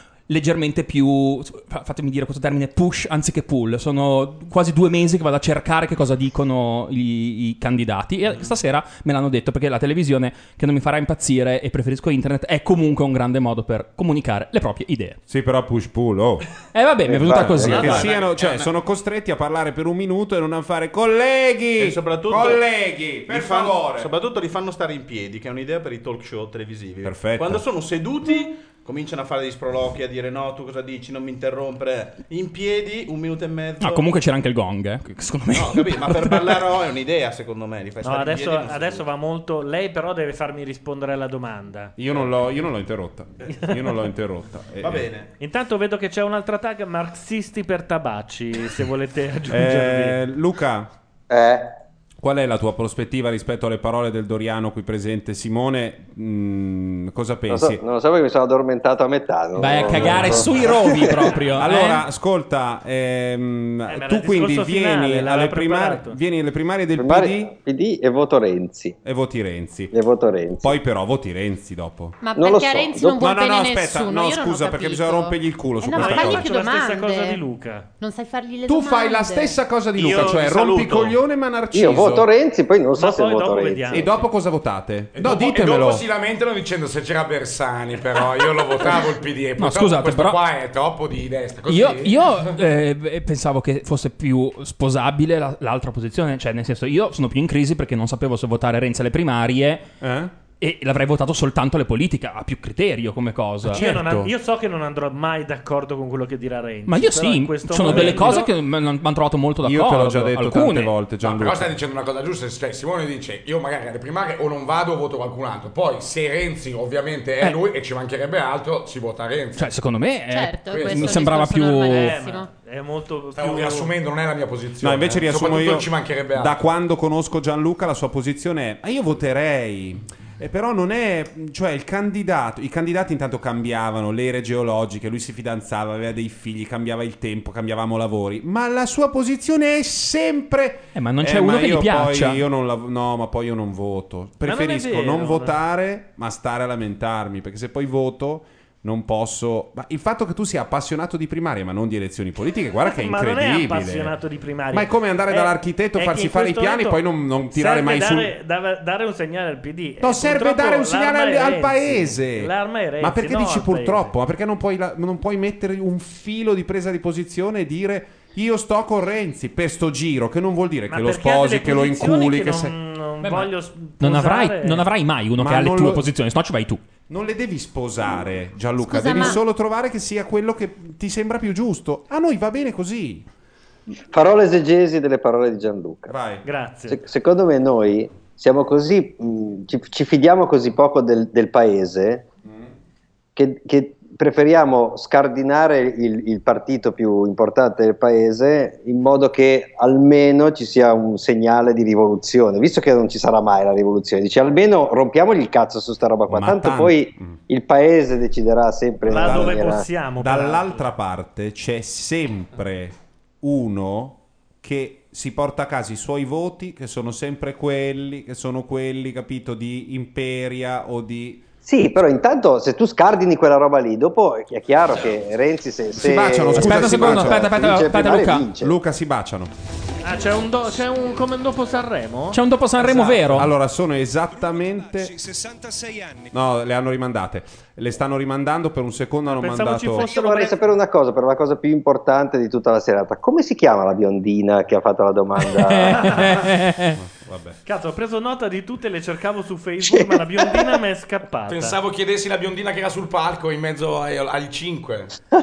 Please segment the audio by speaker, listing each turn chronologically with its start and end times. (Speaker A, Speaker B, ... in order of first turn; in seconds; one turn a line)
Speaker A: 0.3-15.2
Speaker B: 15.3-16.5
Speaker A: 16.7-18.1
Speaker C: 17.1-18.0
Speaker B: 17.2-24.1
Speaker D: 17.6-18.7
Speaker D: 21.8-22.6
Speaker D: 23.3-34.1
Speaker B: 27.0-27.6
Speaker A: 33.8-36.6
Speaker D: 35.5-39.1
Speaker E: 38.0-41.9
Speaker B: 42.0-45.1
Speaker D: 44.8-45.3
Speaker E: 45.4-50.2
Speaker B: 49.5-50.9
Speaker C: 51.3-51.8
Speaker B: 52.2-57.8
Speaker C: 57.5-61.4
Speaker A: 59.6-62.0
Speaker B: 59.9-67.5
Speaker E: 63.9-66.2
Speaker C: 67.0-69.0
Speaker B: 69.0-70.0
Speaker C: 69.9-70.8
Speaker B: 70.6-72.2
Speaker F: 72.2-77.4
Speaker C: 72.4-73.2
Speaker B: 73.2-76.5
Speaker E: 76.0-77.9
Speaker F: 78.0-79.6
Speaker B: 78.7-82.3
Speaker E: 80.0-81.1
Speaker C: 81.7-84.1
Speaker E: 83.0-84.2
Speaker B: 83.9-86.1
Speaker G: 85.1-92.6
Speaker A: 89.6-90.4
Speaker A: 91.7-99.8
Speaker B: 100.0-100.3
Speaker A: 100.6-104.3
Speaker B: 103.7-104.3
Speaker E: 103.7-108.5
Speaker A: 106.9-111.1
Speaker B: 107.8-108.5
Speaker B: 109.6-111.8
Speaker G: 111.2-119.7
Speaker A: 119.6-122.2
Speaker F: 120.3-122.5
Speaker G: 120.7-121.5
Speaker E: 121.9-123.9
Speaker G: 123.3-126.7
Speaker B: 124.8-154.2
Speaker A: 141.0-142.4
Speaker E: 144.4-145.6
Speaker E: 152.8-164.1
Speaker B: 154.7-158.3
Speaker B: 160.0-173.4
Speaker E: 170.9-174.9
Speaker A: 174.0-176.8
Speaker B: 175.4-176.1
Speaker B: 177.1-183.3
Speaker F: 178.9-179.4
Speaker C: 184.1-186.2
Speaker B: 186.1-186.5
Speaker E: 186.4-187.0
Speaker C: 186.9-192.3
Speaker C: 193.4-209.9
Speaker B: 206.3-207.4
Speaker E: 209.1-210.8
Speaker B: 209.2-209.6
Speaker B: 210.2-221.5
Speaker C: 221.6-228.8
Speaker B: 226.0-227.6
Speaker A: 226.5-228.5
Speaker B: 228.6-229.5
Speaker E: 230.0-232.4
Speaker A: 232.3-233.5
Speaker G: 232.8-233.4
Speaker B: 233.3-235.1
Speaker H: 234.3-236.3
Speaker B: 236.3-240.1
Speaker E: 239.3-240.6
Speaker C: 240.0-246.0
Speaker A: 245.4-247.0
Speaker E: 245.9-246.4
Speaker B: 247.0-247.6
Speaker E: 247.7-251.8
Speaker G: 251.5-255.2